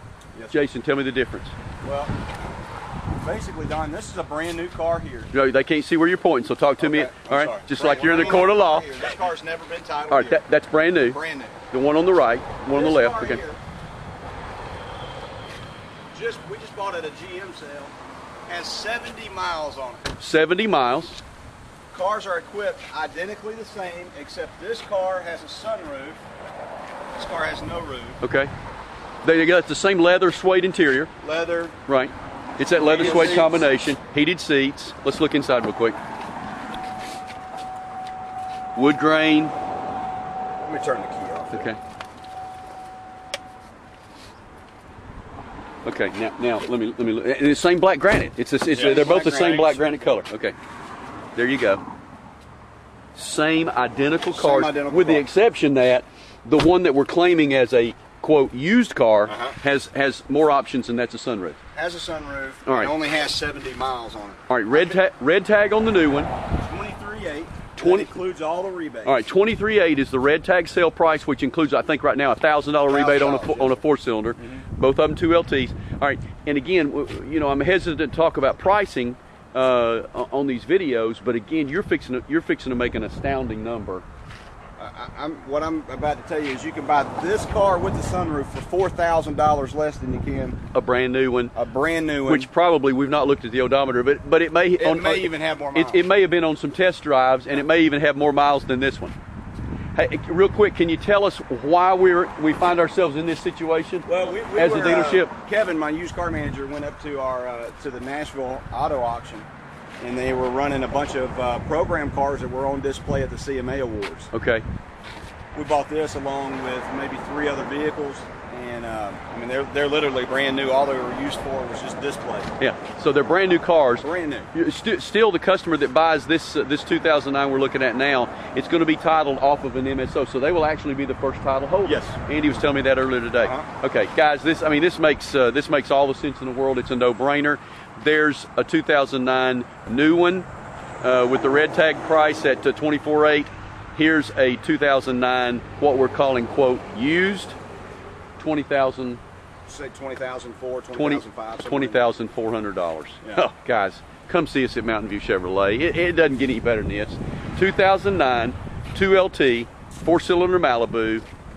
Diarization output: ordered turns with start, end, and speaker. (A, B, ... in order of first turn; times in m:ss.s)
0:00.5-0:01.5 A
0:01.8-0:02.2 B
0:03.2-0:05.3 B
0:05.3-0:09.1 A
0:06.8-0:10.4 B
0:10.1-0:11.2 A
0:11.0-0:11.6 B
0:11.7-0:13.4 A
0:12.7-0:13.6 B
0:16.1-0:17.9 B
0:18.5-0:20.1 B
0:20.2-0:21.2 A
0:21.9-0:26.2 B
0:27.1-0:28.2 B
0:28.2-0:28.5 A
0:29.2-0:31.1 A
0:31.2-0:31.8 B
0:31.9-0:36.0 A
0:32.8-0:33.6 B
0:38.7-0:39.5 A
0:40.6-0:41.7 B
0:41.5-0:41.8 A
0:45.8-0:50.6 A
0:48.7-0:50.0 B
0:51.4-0:51.8 A
0:53.1-1:01.6 A
0:54.3-0:55.3 B
0:59.2-0:59.6 B
1:01.7-1:05.0 B
1:02.6-1:02.9 A
1:04.5-1:06.3 A
1:06.6-1:09.2 B
1:07.8-1:08.1 A
1:09.0-1:24.0 A
1:12.9-1:13.8 B
1:24.8-1:30.6 B
1:30.7-1:31.5 A
1:31.5-1:32.5 B
1:32.2-1:39.1 A
1:34.8-1:36.0 B
1:40.0-1:45.3 A
1:44.0-1:49.5 B
1:50.0-1:54.3 B
1:54.3-1:54.6 A
1:55.5-2:02.5 B
2:02.6-2:20.4 A
2:04.0-2:04.5 B
2:11.8-2:12.2 B
2:13.4-2:13.7 B
2:21.0-2:27.6 A
2:28.4-2:29.2 A
2:29.7-2:32.0 B
2:30.9-2:41.2 A